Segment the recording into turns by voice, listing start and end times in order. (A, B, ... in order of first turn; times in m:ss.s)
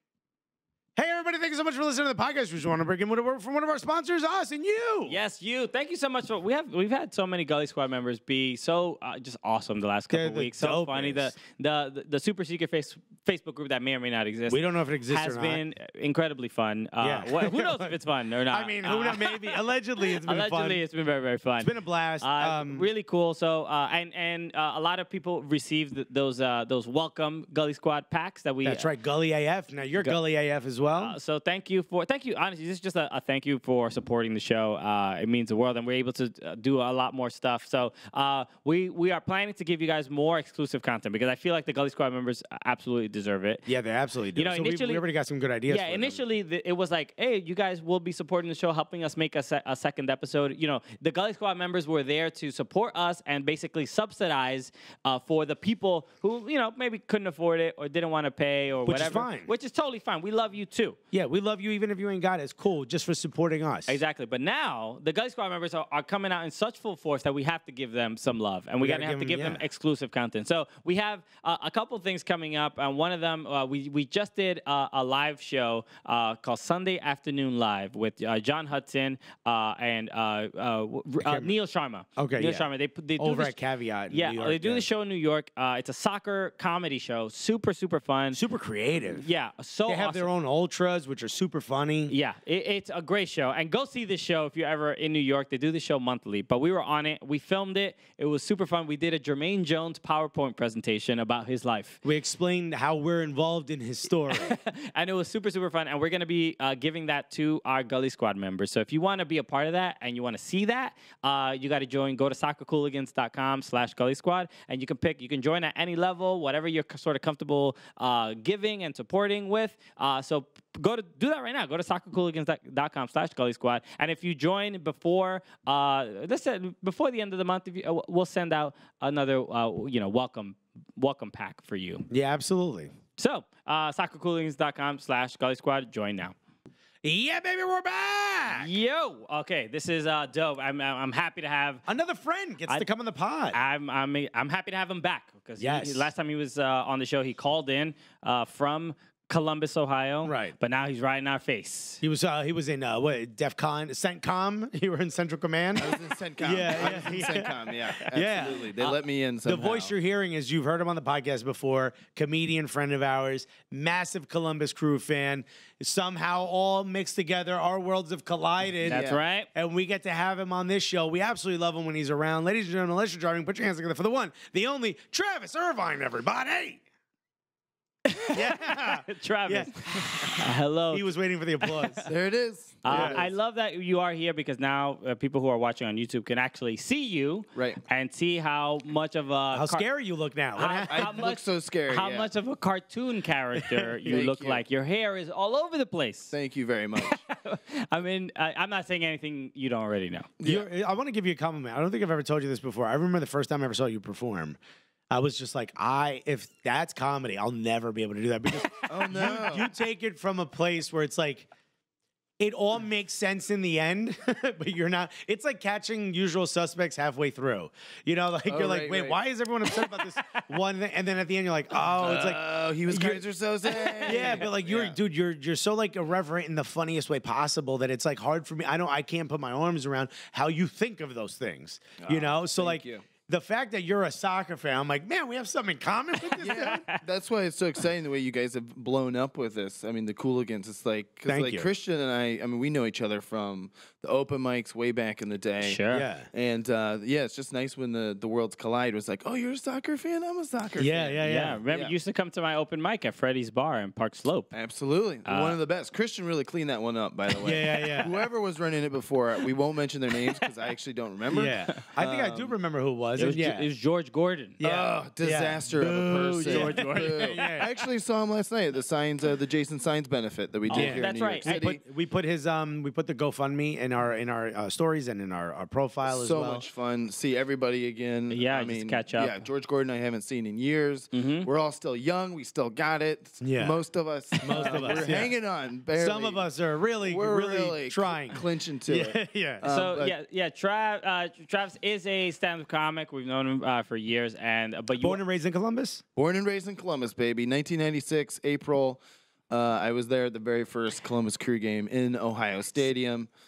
0:01.0-0:05.2 A
0:05.1-0:19.6 B
0:10.1-0:11.3 A
0:14.5-0:15.6 A
0:17.0-0:17.9 A
0:18.5-0:20.8 A
0:20.2-0:28.9 B
0:21.6-0:22.9 A
0:28.6-0:31.2 A
0:31.0-0:43.6 B
0:43.6-0:46.2 A
0:44.3-0:45.0 B
0:45.7-1:01.0 B
0:58.8-0:59.5 A
1:01.1-1:04.0 A
1:03.9-1:23.6 B
1:08.8-1:09.6 A
1:21.2-1:21.5 A
1:22.2-1:22.6 A
1:23.2-1:24.9 A
1:24.1-1:28.4 B
1:28.3-1:29.2 A
1:29.1-1:30.3 B
1:29.8-1:32.1 A
1:32.1-1:42.0 B
1:42.0-1:44.5 A
1:44.3-2:12.0 B
2:12.1-2:12.9 A
2:13.2-2:16.3 B
2:17.0-2:18.7 A
2:18.6-2:21.8 B
2:21.9-2:23.6 A
2:23.5-2:32.0 B
2:25.6-2:26.1 A
2:30.2-2:30.5 A
2:32.0-2:38.7 A
2:35.7-2:39.9 C
2:39.4-2:56.8 A
2:48.8-2:49.2 C
2:48.8-2:49.5 B
2:58.1-3:01.1 B
2:58.3-3:02.0 A
3:01.6-3:02.0 B
3:02.0-3:03.3 C
3:02.8-3:09.8 B
3:02.9-3:03.2 A
3:09.5-3:11.2 A
3:10.6-3:16.3 B
3:10.9-3:12.3 C
3:13.6-3:14.2 A
3:14.0-3:14.6 C
3:16.3-3:17.2 C
3:17.0-3:20.3 B
3:20.4-3:20.6 C
3:20.4-3:24.6 A
3:25.1-3:31.5 A
3:28.9-3:29.7 C
3:32.4-3:43.2 A
3:38.5-3:39.2 C
3:39.8-3:40.4 B
3:42.0-3:45.0 C
3:43.8-3:44.5 B
3:44.0-3:56.8 A
3:52.0-3:53.0 C
3:56.4-4:05.8 C
4:01.3-4:01.7 A
4:05.6-4:06.1 B
4:05.9-4:06.3 A
4:06.3-4:11.9 C
4:10.8-4:11.6 A
4:11.2-4:14.5 B
4:14.5-4:22.5 C
4:15.2-4:15.6 B
4:17.4-4:18.2 A
4:21.3-4:23.6 A
4:23.2-4:24.6 B
4:24.6-4:27.7 A
4:24.6-4:31.8 C
4:26.3-4:27.4 B
4:30.7-4:31.6 B
4:30.7-4:36.6 A
4:36.0-4:46.4 C
4:38.3-4:39.4 B
4:41.1-4:41.5 B
4:43.4-4:43.8 A
4:44.4-4:45.3 A
4:44.5-4:45.1 B
4:46.0-4:49.6 A
4:47.0-4:50.1 C
4:49.6-4:55.2 B
4:55.0-4:56.0 A
4:56.2-5:03.3 C